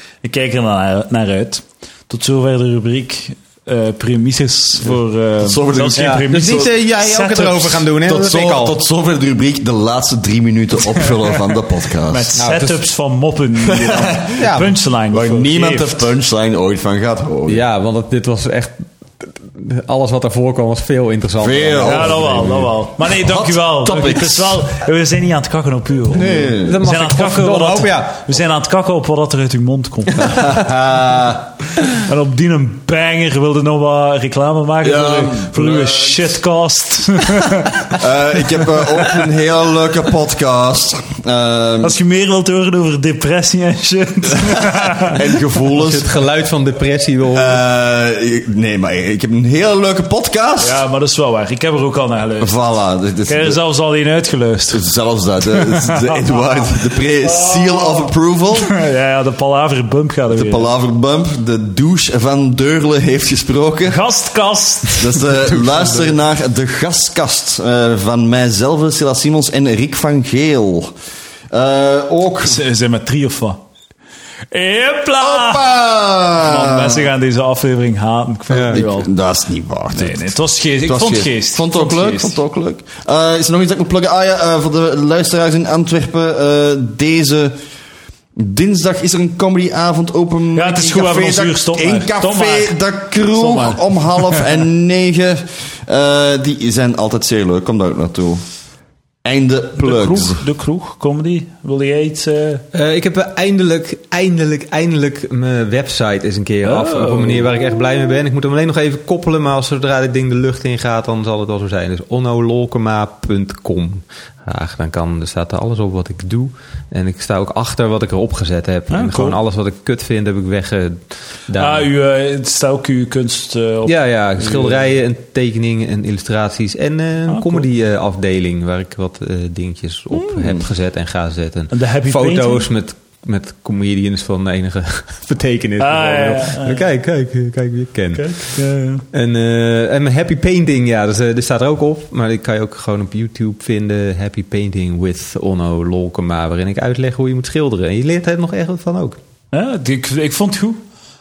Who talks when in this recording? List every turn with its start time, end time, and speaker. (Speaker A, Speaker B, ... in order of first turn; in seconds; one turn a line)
Speaker A: 0.2-7.9
Speaker B: 5.4-6.5
Speaker C: 6.0-8.8
Speaker B: 8.0-12.3
Speaker A: 12.1-16.1
Speaker C: 12.4-12.8
Speaker B: 13.7-14.5
Speaker C: 14.4-14.7
Speaker B: 15.1-17.6
Speaker C: 17.5-22.4
Speaker B: 21.4-24.6
Speaker A: 21.8-30.5
Speaker B: 26.1-26.8
Speaker C: 26.6-28.3
Speaker C: 30.2-30.6
Speaker B: 30.2-31.5
Speaker A: 31.9-38.0
Speaker B: 34.8-36.2
Speaker B: 37.9-42.0
Speaker A: 41.8-45.2
Speaker B: 44.7-46.1
Speaker C: 45.7-47.6
Speaker B: 47.3-50.8
Speaker A: 50.6-52.5
Speaker B: 52.4-53.6
Speaker A: 53.3-54.9
Speaker B: 54.7-58.8
Speaker A: 55.5-56.6
Speaker A: 57.2-60.7
Speaker B: 60.3-64.0
Speaker A: 63.8-65.3
Speaker B: 64.9-70.9
Speaker B: 71.5-72.6
Speaker A: 72.4-73.6
Speaker A: 74.5-75.7
Speaker B: 75.2-77.1
Speaker A: 76.4-79.1
Speaker C: 78.5-78.8
Speaker B: 78.7-80.3
Speaker A: 79.9-82.4
Speaker B: 80.8-87.6
Speaker B: 88.4-98.4
Speaker A: 90.5-94.4
Speaker B: 99.2-100.4
Speaker A: 99.8-102.6
Speaker C: 102.7-121.9
Speaker A: 106.6-107.5
Speaker A: 118.9-119.4
Speaker A: 121.5-124.8
Speaker C: 123.9-138.6
Speaker A: 127.3-127.7
Speaker B: 130.1-130.7
Speaker A: 131.7-132.7
Speaker A: 135.8-136.8
Speaker A: 138.1-139.0
Speaker C: 139.1-149.2
Speaker A: 149.5-150.8